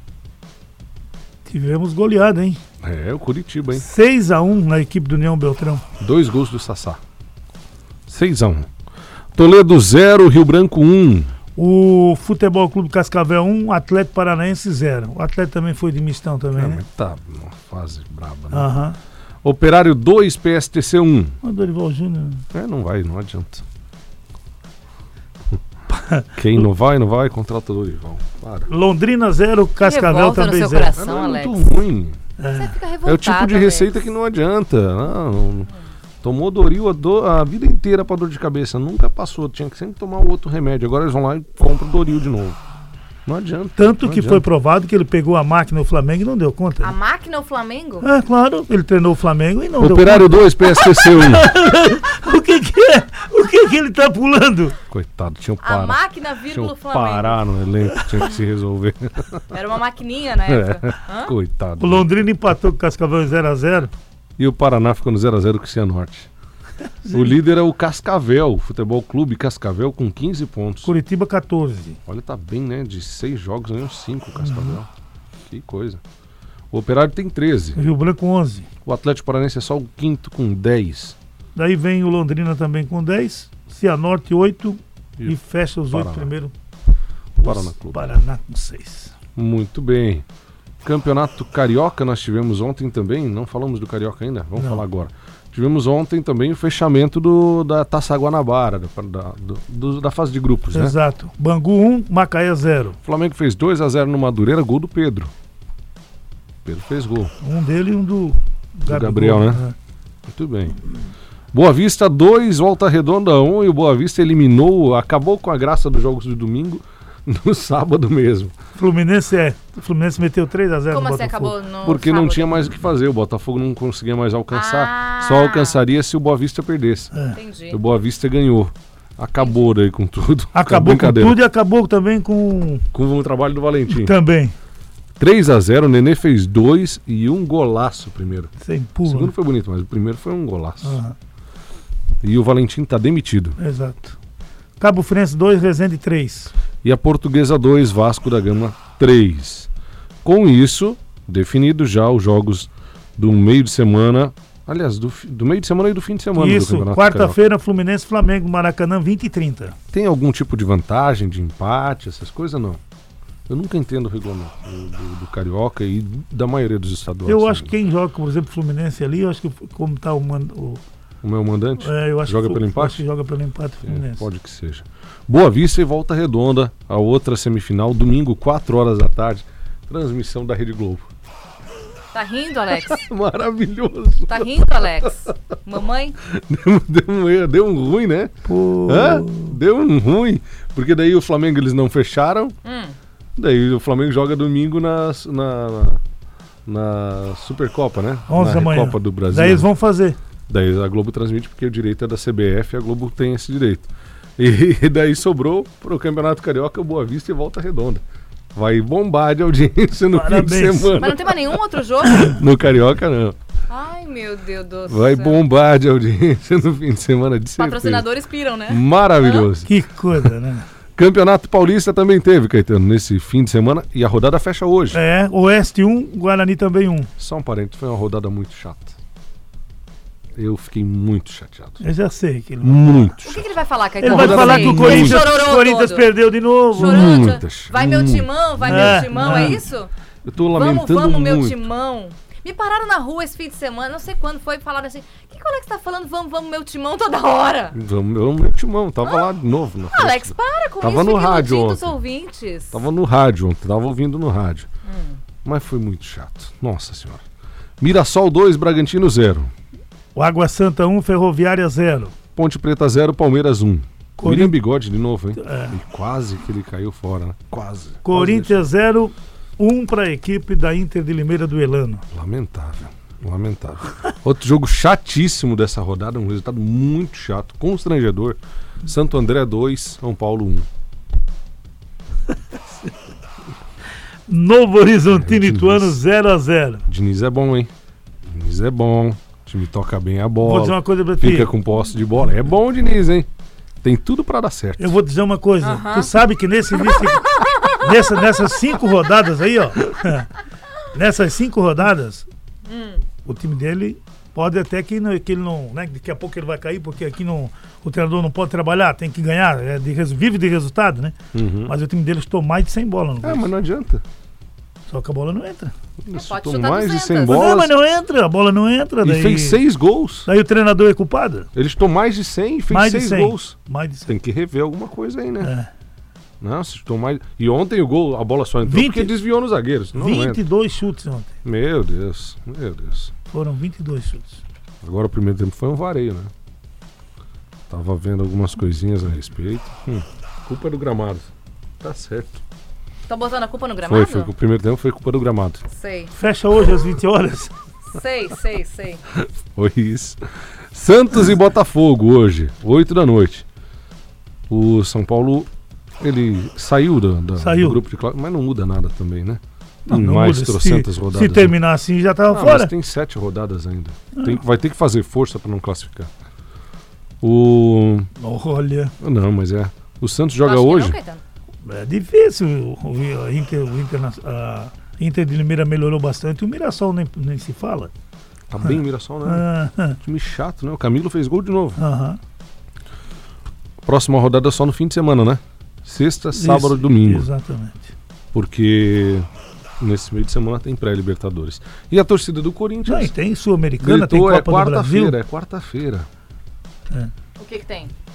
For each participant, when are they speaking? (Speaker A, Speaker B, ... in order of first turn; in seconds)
Speaker A: 1.5-2.6, 3.8-5.8, 11.6-16.8, 18.5-19.0, 21.4-22.4, 25.9-26.3, 28.7-30.9, 32.4-32.7, 43.8-46.9, 48.0-54.8, 61.8-63.9, 67.0-67.4, 70.8-72.0, 74.4-74.8, 77.8-78.7, 81.6-86.5, 87.4-89.1, 94.6-94.8, 100.7-103.0, 107.4-109.8, 118.8-121.5, 127.1-127.4, 130.5-132.8, 133.9-134.5, 138.6-139.3, 140.8-141.2, 143.6-144.2, 144.8-146.5, 156.3-159.8, 167.3-170.8, 171.8-174.3, 188.4-189.6, 198.3-200.2, 210.1-211.0, 219.7-220.7, 224.9-227.1, 231.8-233.1, 234.0-237.2, 238.7-239.6, 260.1-262.1, 264.2-264.6, 265.4-265.8, 268.0-272.1, 284.3-286.9, 290.4-291.5, 294.8-300.3, 300.9-302.3, 303.2-313.5, 314.9-315.7, 317.3-319.6, 320.3-321.5, 322.7-324.1, 325.4-325.7, 328.6-329.2, 329.9-331.3, 333.3-334.4, 346.1-347.5, 357.4-357.8, 359.9-362.7, 368.2-368.9, 371.6-377.9, 378.6-380.0, 381.8-382.2, 386.3-387.9, 392.9-395.2
Speaker B: 2.8-3.9, 6.0-7.0, 8.1-8.7, 9.3-11.3, 16.5-18.7, 19.4-21.4, 22.5-23.6, 26.4-28.7, 30.9-32.2, 33.0-35.7, 36.2-42.6, 43.3-44.5, 49.8-51.5, 54.9-56.0, 56.5-59.5, 60.5-62.1, 64.4-66.3, 67.1-70.9, 72.1-74.9, 75.4-76.0, 76.7-77.8, 78.8-81.2, 85.9-86.3, 87.4-88.1, 89.4-90.2, 90.8-101.0, 103.0-105.3, 106.7-107.3, 108.9-109.6, 110.3-110.8, 111.5-118.5, 121.8-127.1, 127.7-131.4, 132.9-134.2, 135.2-138.5, 139.1-141.0, 142.2-143.6, 146.8-149.7, 150.2-157.4, 159.9-162.8, 163.5-167.7, 171.2-173.0, 173.8-181.1, 182.7-185.3, 186.2-188.3, 188.8-192.6, 193.4-196.0, 196.7-199.7, 200.5-208.0, 208.5-211.6, 212.2-213.4, 214.9-218.1, 218.7-220.3, 221.0-225.0, 227.2-229.0, 230.3-231.8, 232.6-233.5, 234.0-235.3, 236.8-239.6, 240.2-241.7, 247.7-251.9, 252.7-254.7, 255.4-257.2, 257.8-259.5, 262.4-268.7, 272.1-280.7, 285.1-286.0, 286.9-287.7, 288.3-293.3, 293.8-295.0, 311.3-311.7, 313.2-314.0, 316.0-317.7, 319.0-320.3, 321.6-323.6, 324.1-325.5, 326.4-330.4, 331.4-333.1, 334.8-336.3, 337.7-342.4, 343.8-345.6, 349.2-353.4, 354.5-361.6, 362.3-366.1, 367.2-368.1, 369.0-371.0, 378.5-379.5, 380.0-381.8, 383.8-387.3, 388.3-389.3, 389.8-393.1, 393.8-396.1
Speaker C: 29.8-31.7, 32.5-34.0, 46.8-48.1, 55.6-57.4, 59.5-61.3, 120.9-122.6, 124.5-125.8, 127.3-127.8, 182.1-183.0, 184.3-186.2, 192.6-193.0, 211.0-212.4, 213.7-215.4, 217.6-219.5, 233.2-236.1, 236.7-239.9, 240.5-247.8, 249.9-252.8, 254.8-255.2, 295.6-296.1, 296.9-297.8, 302.7-303.0, 316.1-317.5, 343.1-344.3, 345.7-346.1, 347.9-349.0, 370.4-371.2, 397.4-397.9